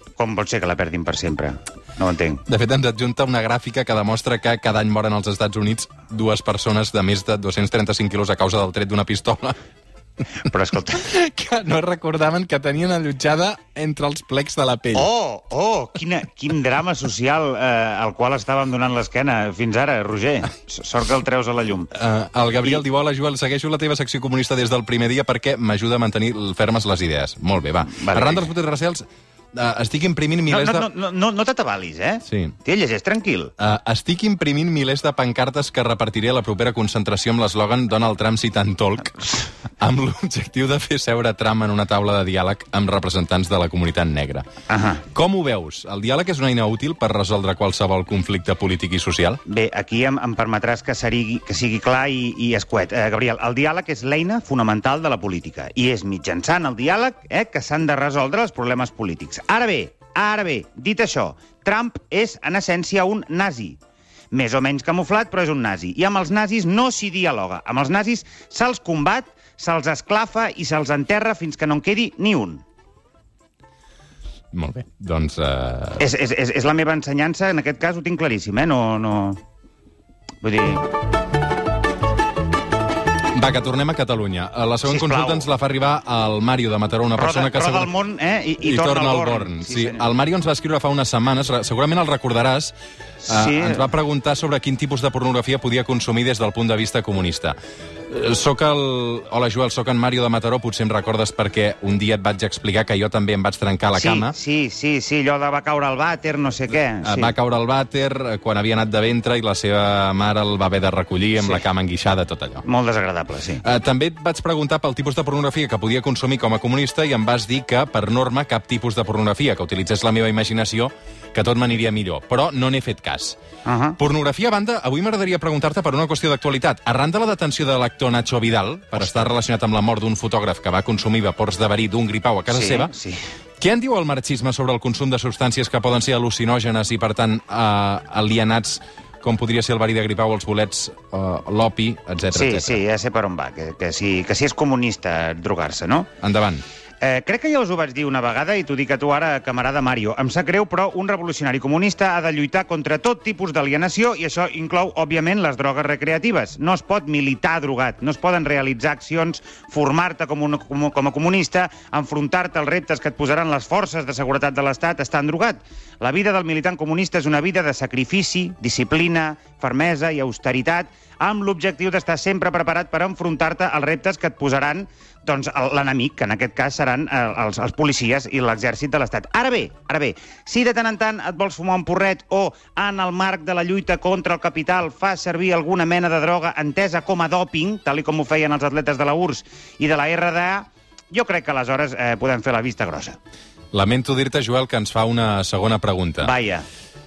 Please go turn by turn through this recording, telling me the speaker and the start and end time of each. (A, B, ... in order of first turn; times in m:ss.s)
0:00.2-0:02.4 A
0:02.4-0:09.6 B
0:10.4-0:11.1 A
0:11.0-0:15.1 B
0:14.9-0:21.9 A
0:21.9-0:30.9 B
0:27.9-0:28.5 A
0:30.5-0:33.5 A
0:32.2-0:32.6 B
0:33.6-0:44.5 B
0:44.7-0:45.0 A
0:45.1-0:49.4 B
0:49.4-1:03.8 A
1:04.3-1:12.6 A
1:14.5-1:16.0 B
1:16.0-1:19.4 A
1:20.4-1:20.9 A
1:23.3-1:27.9 B
1:24.8-1:25.5 A
1:27.2-1:30.0 A
1:28.6-1:37.6 B
1:33.2-1:33.9 A
1:38.1-1:44.3 B
1:43.9-1:47.3 A
1:47.0-1:52.6 B
1:52.6-1:53.6 A
1:53.6-2:03.4 B
2:03.6-2:04.0 A
2:04.0-2:12.9 B
2:12.5-2:13.2 A
2:13.6-2:22.8 B
2:22.3-2:26.1 A
2:26.2-2:26.6 B
2:27.0-3:13.2 A
3:13.7-3:16.3 B
3:16.2-3:16.6 A